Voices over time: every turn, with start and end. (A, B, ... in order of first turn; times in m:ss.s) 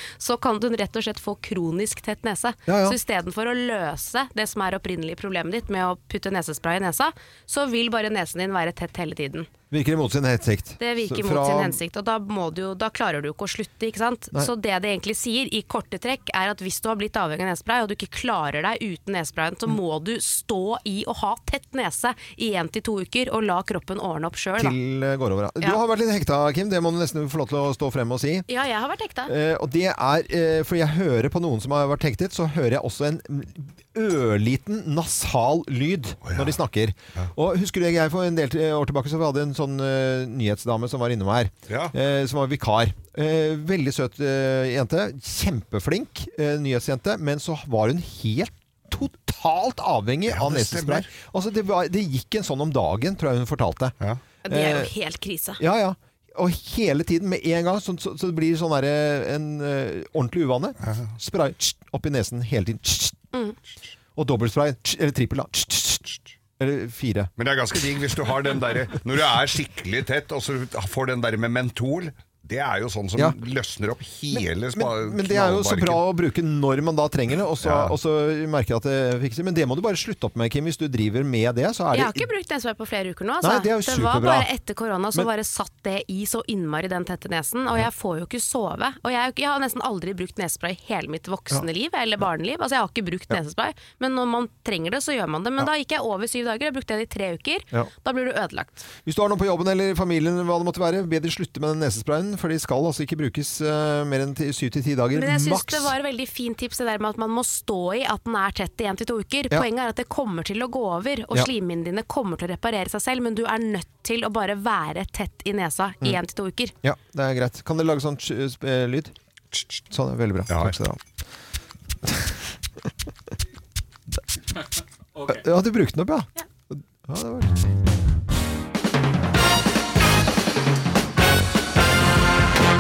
0:00.2-0:09.5 A
0:02.7-0:03.0 B
0:09.7-0:11.8 B
0:10.8-0:24.8 A
0:24.6-0:28.5 B
0:28.5-0:29.3 A
0:29.3-0:54.0 B
0:36.2-0:36.5 C
0:41.7-0:41.9 C
0:50.3-0:51.1 C
0:54.5-0:55.6 A
0:54.5-0:54.9 B
0:55.6-1:03.2 B
1:00.8-1:01.1 C
1:04.2-1:07.3 B
1:07.4-1:16.0 C
1:14.3-1:22.3 B
1:17.6-1:18.0 C
1:21.9-1:38.8 A
1:23.4-1:24.5 B
1:39.0-1:45.9 B
1:45.1-1:56.8 A
1:56.8-1:59.1 B
1:59.9-2:01.0 B
2:00.5-2:00.8 C
2:02.1-2:02.3 B
2:05.2-2:07.6 B